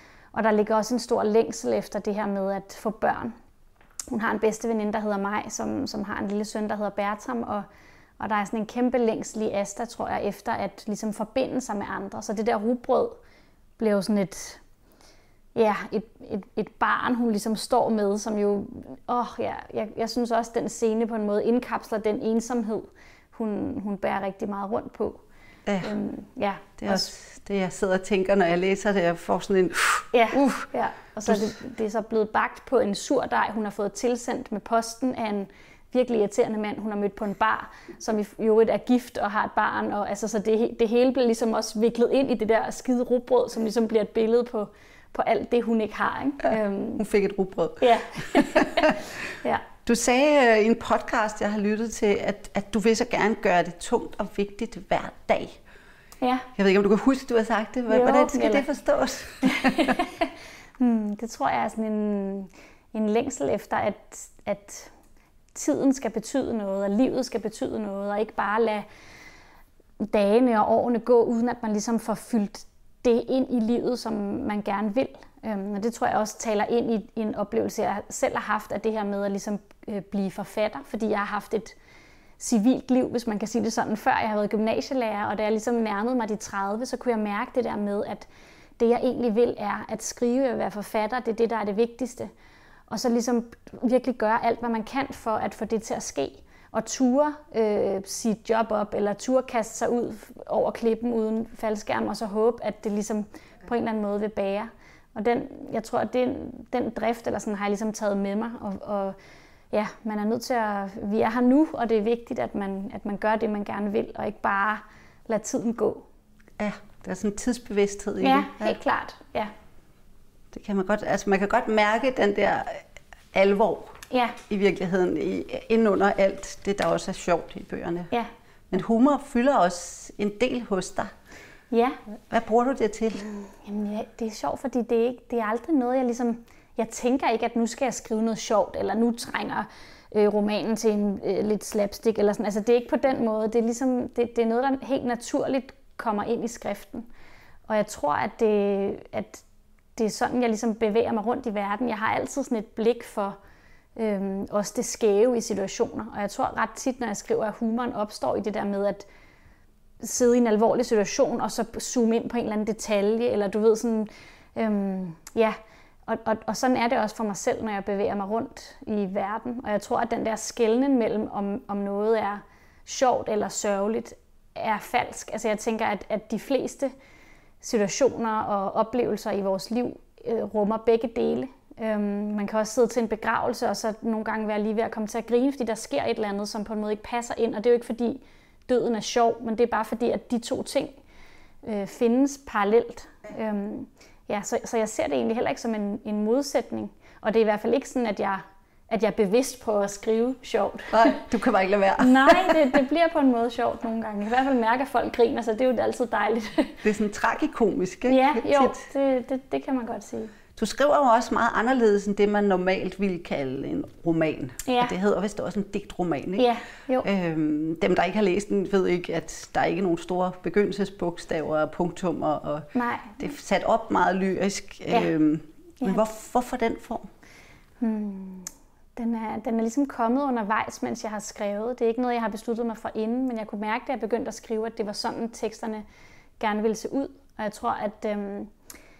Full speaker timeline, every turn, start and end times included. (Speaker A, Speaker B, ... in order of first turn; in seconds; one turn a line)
Speaker A: 0.3-3.3
Speaker A: 4.1-7.7
Speaker A: 8.2-13.2
Speaker A: 13.8-14.6
Speaker A: 15.6-25.2
Speaker B: 25.7-25.9
Speaker A: 25.8-27.1
Speaker B: 26.8-30.7
Speaker A: 30.1-47.0
Speaker B: 47.0-49.0
Speaker A: 47.8-49.7
Speaker B: 49.9-55.6
Speaker A: 56.2-56.5
Speaker B: 56.6-60.0
Speaker A: 57.9-58.7
Speaker A: 59.4-60.3
Speaker A: 60.8-64.9
Speaker A: 65.5-68.9
Speaker A: 70.0-81.8
Speaker A: 82.4-92.3
Speaker A: 92.9-109.2
Speaker A: 109.7-116.1
Speaker B: 116.6-118.8
Speaker A: 118.2-119.5
Speaker B: 120.5-123.9
Speaker A: 124.1-124.4
Speaker B: 124.5-128.1
Speaker B: 128.7-131.1
Speaker A: 131.7-132.0
Speaker B: 132.3-133.2
Speaker A: 133.2-147.1
Speaker A: 147.7-149.4
Speaker A: 150.0-153.4
Speaker A: 154.0-159.1
Speaker A: 160.0-176.9
Speaker A: 177.6-191.0
Speaker A: 191.6-201.2
Speaker B: 200.9-202.8
Speaker A: 202.0-206.8
Speaker B: 206.8-208.8
Speaker A: 208.1-210.3
Speaker B: 210.6-216.5
Speaker A: 214.7-215.0
Speaker A: 216.4-217.1
Speaker B: 217.0-227.1
Speaker A: 222.8-223.2
Speaker A: 225.8-226.1
Speaker A: 227.8-235.8
Speaker A: 236.4-238.5